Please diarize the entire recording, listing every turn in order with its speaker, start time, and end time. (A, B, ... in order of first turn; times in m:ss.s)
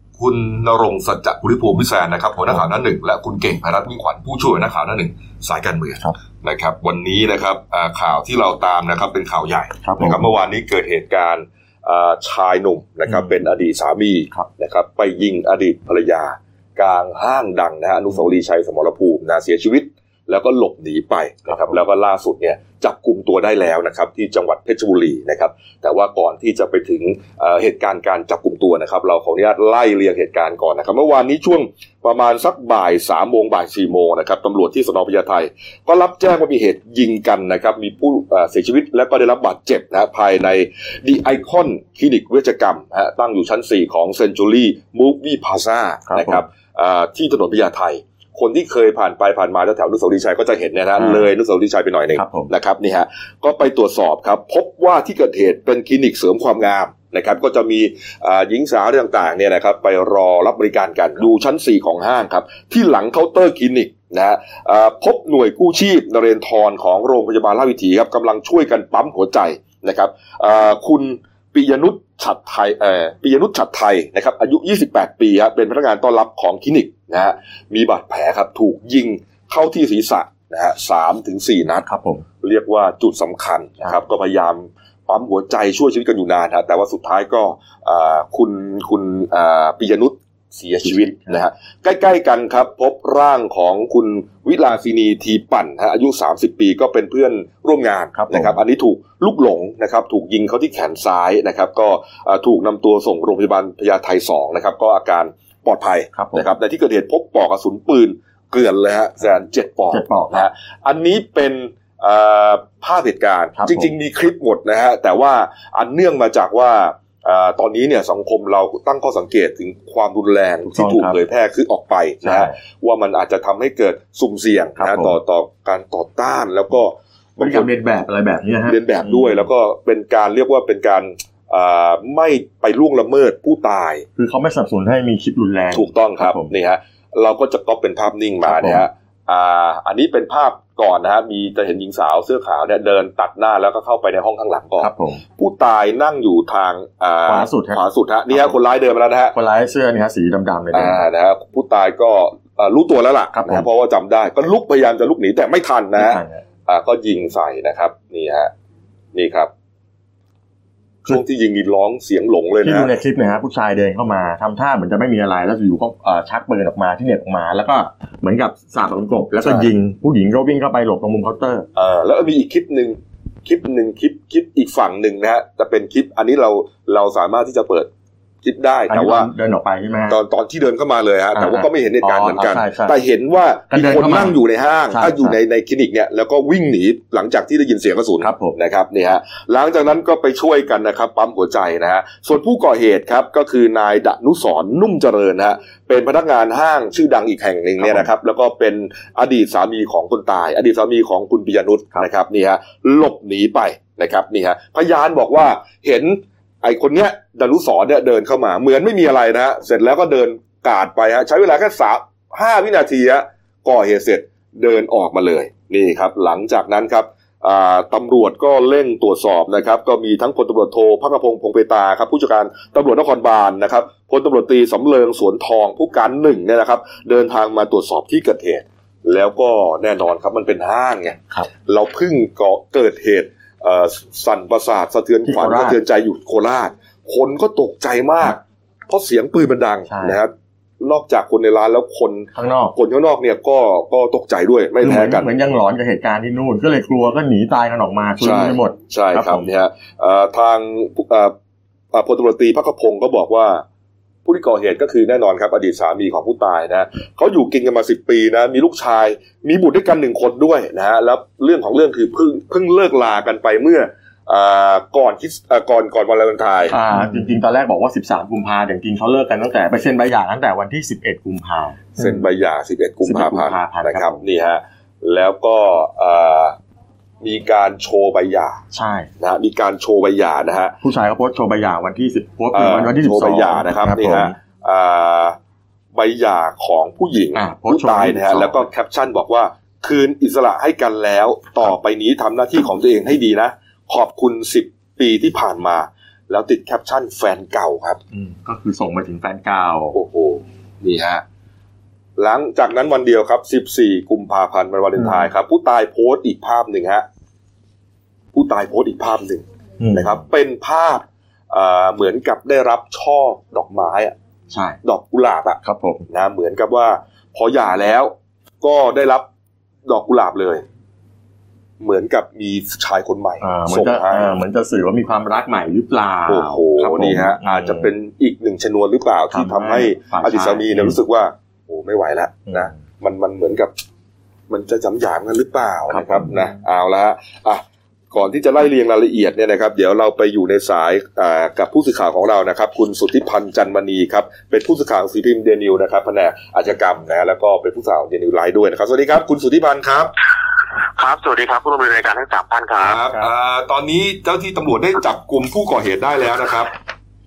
0:00.2-1:21.8 A
0:09.8-0:10.2 B
0:13.1-0:13.3 B
0:21.5-0:21.7 B
0:46.1-0:46.4 B
0:51.0-0:51.2 B
0:52.1-0:52.5 B
1:21.8-1:22.2 B
1:22.4-2:07.7 A
1:30.8-1:31.4 B
1:38.1-1:38.6 B
1:46.1-1:46.5 B
1:49.9-1:50.5 B
1:53.6-1:53.9 B
2:00.6-2:01.2 B
2:02.2-2:02.5 B
2:04.8-2:05.2 B
2:07.4-2:09.4 B
2:08.6-2:14.0 A
2:14.2-2:16.5 B
2:15.7-2:29.3 A
2:18.4-2:18.8 B
2:24.8-2:25.2 B
2:27.3-2:27.8 B
2:29.3-2:31.0 B
2:30.7-2:38.5 A
2:33.3-2:33.6 B
2:36.0-2:36.4 B
2:39.1-2:39.5 A
2:41.1-2:42.9 A
2:42.6-2:51.6 B
2:51.8-2:57.9 A
2:58.4-2:59.3 A
2:58.9-3:00.2 B
3:00.1-4:05.3 A
3:01.3-3:03.0 B
3:03.7-3:04.4 B
3:04.9-3:05.4 B
3:08.2-3:08.6 B
3:17.8-3:18.1 B
3:55.2-3:55.8 B
3:59.9-4:00.2 B
4:02.3-4:02.7 B
4:04.8-4:09.4 B
4:08.2-4:11.3 A
4:11.9-4:13.6 A
4:14.2-4:26.8 A
4:26.7-4:32.0 B
4:32.0-4:36.6 A
4:33.0-4:34.2 B
4:37.2-4:38.6 A
4:38.7-4:39.1 B
4:39.2-4:40.8 A
4:40.8-4:44.3 B
4:42.5-4:45.4 A
4:45.9-4:58.0 A
4:47.3-4:48.6 B
4:58.1-4:59.9 B
4:59.9-5:01.2 A
5:02.2-5:07.0 A
5:08.3-5:14.2 A
5:09.8-5:10.1 B
5:14.5-5:14.8 B
5:14.8-5:19.2 A
5:15.6-5:16.0 B
5:19.9-5:20.6 A
5:21.8-5:24.4 A
5:23.4-5:27.9 B
5:26.3-5:33.7 A
5:29.3-5:31.0 B
5:32.5-5:32.7 B
5:34.5-5:50.1 A
5:35.9-5:36.4 B
5:51.0-5:53.0 C
5:52.8-5:56.7 A